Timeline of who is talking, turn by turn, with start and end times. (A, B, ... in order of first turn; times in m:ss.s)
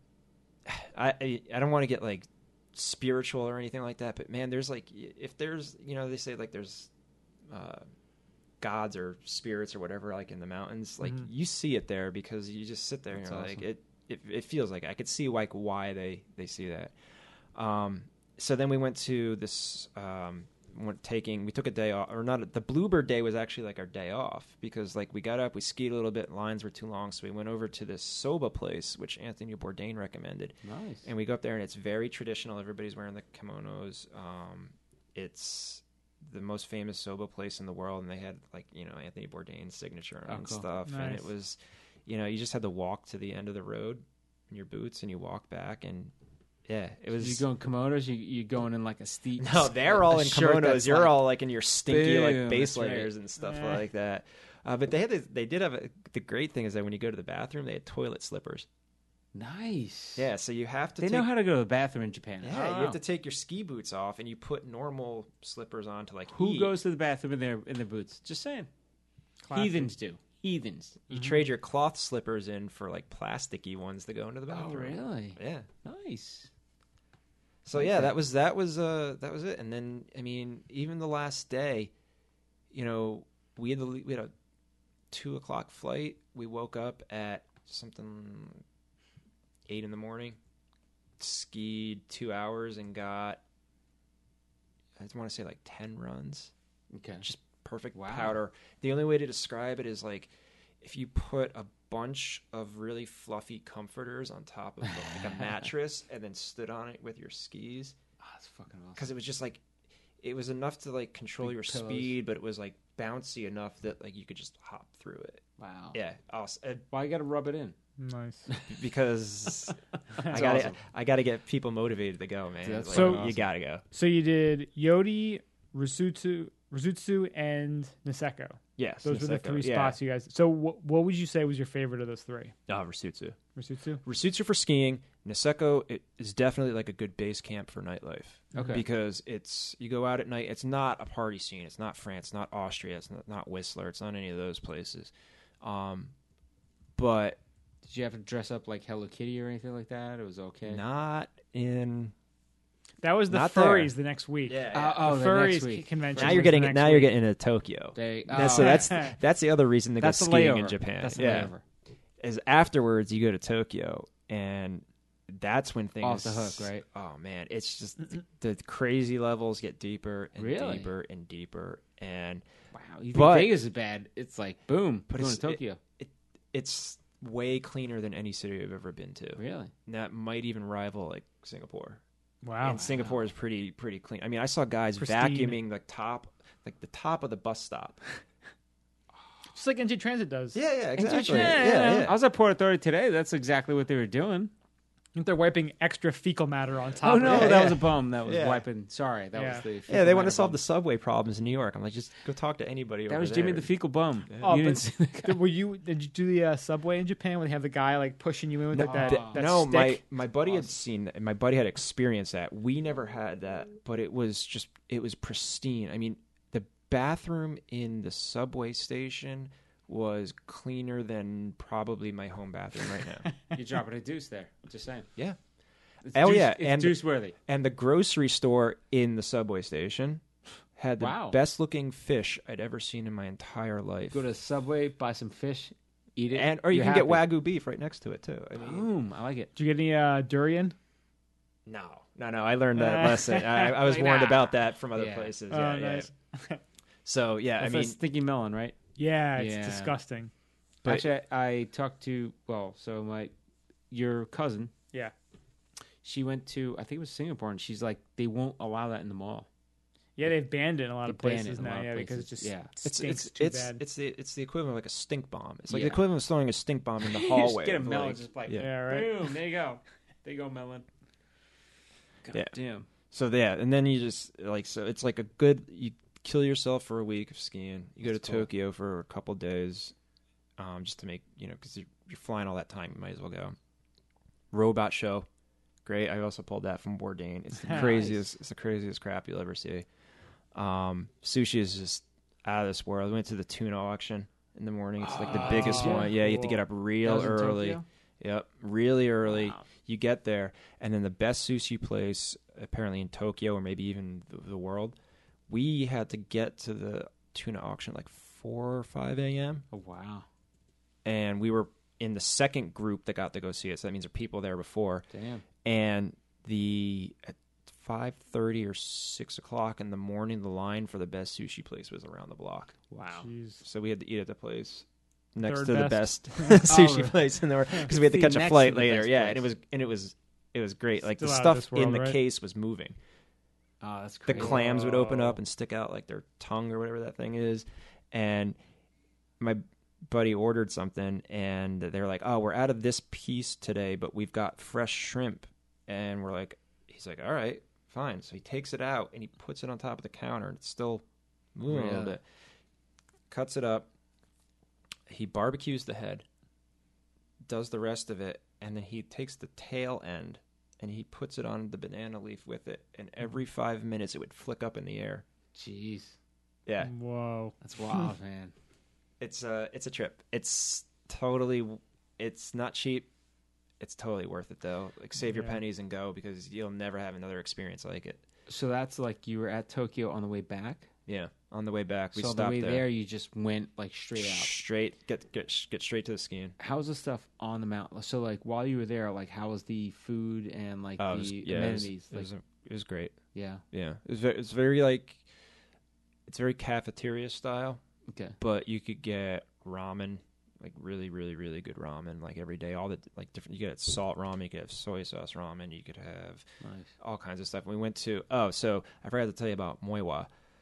0:00.6-0:06.9 A
0:07.5-0:07.8 A
0:08.6-0:16.9 A
0:13.1-0:13.6 B
0:17.5-0:46.1 A
0:30.6-0:31.1 B
0:40.3-0:40.6 B
0:40.8-0:41.3 C
0:46.6-0:47.4 A
0:47.2-0:51.3 B
0:49.4-0:58.7 A
0:51.8-0:53.1 B
0:59.3-1:00.3 B
1:00.2-1:01.3 A
1:01.0-1:03.0 B
1:02.4-1:06.7 A
1:06.3-1:08.7 B
1:09.4-1:09.9 C
1:09.5-1:11.1 B
1:11.1-1:15.7 A
1:11.1-1:11.4 C
1:14.5-1:16.5 B
1:17.6-1:21.9 A
1:17.7-1:18.2 B
1:22.7-1:24.3 A
1:25.1-1:28.6 A
1:29.7-1:30.4 A
1:31.2-1:33.4 A
1:35.0-1:36.5 A
1:36.9-1:37.2 B
1:37.2-1:48.0 A
1:37.9-1:38.4 B
1:48.2-1:49.1 B
1:49.0-1:49.6 A
1:50.2-1:56.8 A
1:51.4-1:52.2 B
1:55.6-1:56.0 B
1:56.9-1:57.7 B
1:58.0-1:58.5 C
1:58.5-1:58.7 B
1:58.7-2:03.8 A
2:00.2-2:00.8 B
2:02.6-2:03.4 B
2:02.9-2:03.2 C
2:03.9-2:12.5 C
2:08.8-2:10.0 A
2:12.7-2:13.4 A
2:13.6-2:14.0 C
2:14.0-2:26.1 A
2:18.5-2:18.8 B
2:27.0-2:27.4 A
2:27.8-2:30.8 B
2:30.6-2:32.1 A
2:33.0-2:37.2 C
2:33.3-2:33.9 A
2:34.4-2:35.0 A
2:34.7-2:36.5 B
2:36.1-2:41.5 A
2:38.0-2:39.0 B
2:38.6-2:39.1 C
2:40.0-2:41.6 B
2:42.2-2:52.4 A
2:46.0-2:46.8 B
2:50.4-2:50.9 B
2:52.7-2:55.8 B
2:53.1-2:53.6 A
2:55.1-3:02.0 A
2:59.4-2:59.7 B
3:02.4-3:02.8 C
3:02.6-3:08.0 A
3:02.6-3:03.2 B
3:05.0-3:05.6 C
3:09.5-3:10.6 C
3:10.5-3:12.2 A
3:11.0-3:14.5 B
3:11.1-3:12.0 C
3:15.1-3:17.6 C
3:17.0-3:20.6 B
3:17.2-3:18.6 A
3:19.4-3:19.6 C
3:19.9-3:23.7 A
3:23.1-3:25.5 B
3:24.4-3:30.0 C
3:28.7-3:43.3 A
3:28.8-3:29.4 B
3:43.5-3:45.1 B
3:46.0-3:47.3 B
3:46.1-3:50.2 A
3:50.8-3:54.3 A
3:51.0-3:51.4 B
3:54.1-3:57.3 B
3:56.3-3:58.9 A
3:58.5-3:59.5 B
3:59.5-4:00.7 C
4:01.6-4:06.1 A
4:02.8-4:03.6 C
4:03.8-4:05.3 B
4:05.5-4:06.6 C
4:07.0-4:08.0 A
4:07.6-4:08.8 B
4:09.0-4:10.3 C
4:09.4-4:09.9 B
4:10.8-4:13.3 B
4:13.9-4:14.7 B
4:16.0-4:19.5 B
4:20.2-4:23.8 C
4:21.0-4:22.7 B
4:22.8-4:28.7 A
4:25.7-4:26.0 B
4:27.0-4:30.8 B
4:28.5-4:29.2 C
4:32.2-4:32.9 B
4:33.1-4:39.9 A
4:38.0-4:38.5 B
4:40.6-4:43.6 A
4:44.5-4:45.3 A
4:45.8-4:49.8 A
4:47.6-4:48.2 B
4:50.5-5:05.0 A
4:55.0-4:57.8 B
4:55.3-4:56.0 C
4:59.3-4:59.6 B
5:05.5-5:09.6 A
5:09.7-5:10.2 B
5:11.0-5:15.0 A
5:15.1-5:15.4 B
5:15.6-5:22.8 A
5:22.9-5:23.3 B
5:23.2-5:23.6 C
5:23.6-5:33.0 A
5:25.4-5:26.7 C
5:26.6-5:29.5 B
5:31.0-5:32.2 C
5:33.8-5:35.2 B
5:34.3-5:38.6 A
5:34.3-5:35.4 C
5:39.4-5:51.0 A
5:51.5-5:52.2 A
5:51.7-5:52.2 B
5:53.3-5:53.9 A
5:55.1-5:56.2 A
5:57.4-6:05.2 A
6:05.5-6:06.2 B
6:06.6-6:06.9 A
6:06.8-6:07.6 C
6:07.6-6:08.5 B
6:09.2-6:13.1 A
6:13.8-6:18.2 A
6:15.3-6:15.6 C
6:18.5-6:20.9 B
6:21.1-6:22.8 A
6:22.1-6:24.6 B
6:24.2-6:26.6 A
6:26.6-6:32.3 B
6:31.0-6:33.2 A
6:33.3-6:33.6 B
6:33.7-6:35.2 A
6:36.3-6:37.8 A
6:38.1-6:38.4 B
6:38.4-6:46.5 A
6:46.6-6:46.9 B
6:47.0-6:50.3 A